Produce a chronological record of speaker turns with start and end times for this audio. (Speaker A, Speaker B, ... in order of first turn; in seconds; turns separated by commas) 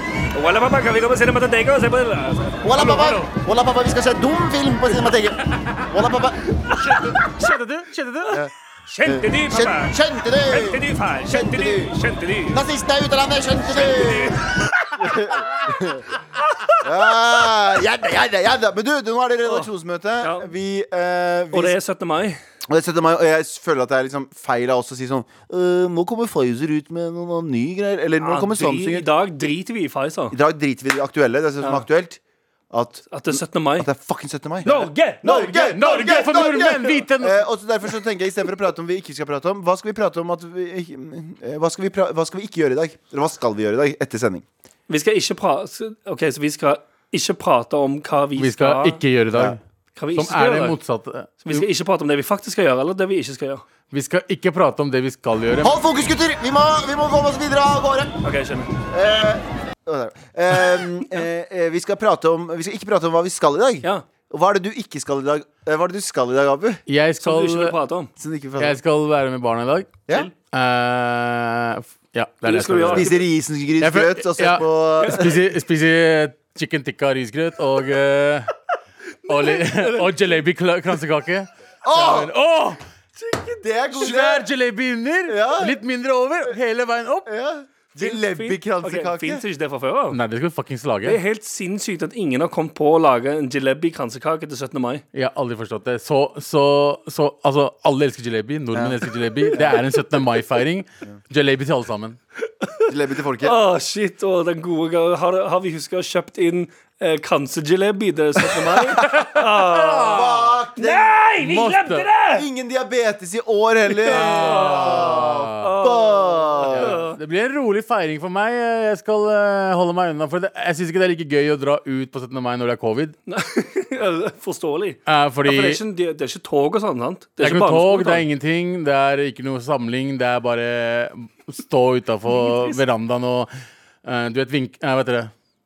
Speaker A: 0.3-2.7, Speaker B: 2.6-6.4, Speaker C: 2.8-3.3, Speaker C: 6.6-8.4, Speaker A: 8.9-12.6, Speaker B: 9.0-11.9, Speaker B: 12.5-14.4, Speaker A: 13.7-14.7, Speaker B: 14.9-16.1, Speaker B: 16.8-21.8, Speaker A: 20.2-20.5, Speaker A: 21.5-22.4, Speaker B: 22.7-29.1, Speaker A: 28.2-30.4, Speaker B: 30.3-32.2, Speaker A: 31.6-31.9, Speaker B: 32.7-44.5, Speaker A: 33.1-33.9, Speaker A: 34.6-36.4, Speaker C: 35.2-37.4, Speaker A: 44.9-49.0, Speaker C: 48.4-49.6, Speaker A: 50.0-50.8, Speaker C: 50.1-51.6, Speaker A: 51.4-53.6, Speaker C: 53.9-55.8, Speaker B: 55.6-58.2, Speaker A: 58.2-58.7, Speaker B: 58.9-66.8, Speaker C: 66.9-67.8, Speaker A: 67.2-68.1, Speaker B: 68.2-68.8, Speaker C: 68.6-73.2, Speaker A: 72.4-73.2, Speaker B: 72.9-75.4, Speaker C: 73.8-78.5, Speaker A: 75.0-75.3, Speaker A: 79.3-80.2, Speaker C: 79.3-82.8, Speaker B: 81.8-82.3, Speaker A: 83.2-83.7, Speaker B: 83.6-84.5, Speaker C: 83.9-87.3, Speaker B: 85.2-85.8, Speaker B: 87.2-89.4, Speaker A: 88.0-90.2, Speaker C: 90.1-91.2, Speaker A: 91.0-95.0, Speaker C: 95.1-102.2, Speaker B: 98.7-99.0, Speaker B: 99.5-99.8, Speaker A: 102.6-102.9, Speaker B: 102.9-103.6, Speaker A: 103.4-110.2, Speaker C: 108.5-110.6, Speaker B: 110.1-111.2, Speaker A: 110.7-112.5, Speaker C: 111.4-112.1, Speaker B: 112.3-117.0, Speaker A: 114.0-117.2, Speaker C: 114.1-115.7, Speaker C: 116.7-123.2, Speaker A: 123.3-128.2, Speaker C: 125.1-125.8, Speaker C: 127.4-133.5, Speaker A: 132.3-132.8, Speaker C: 134.0-135.3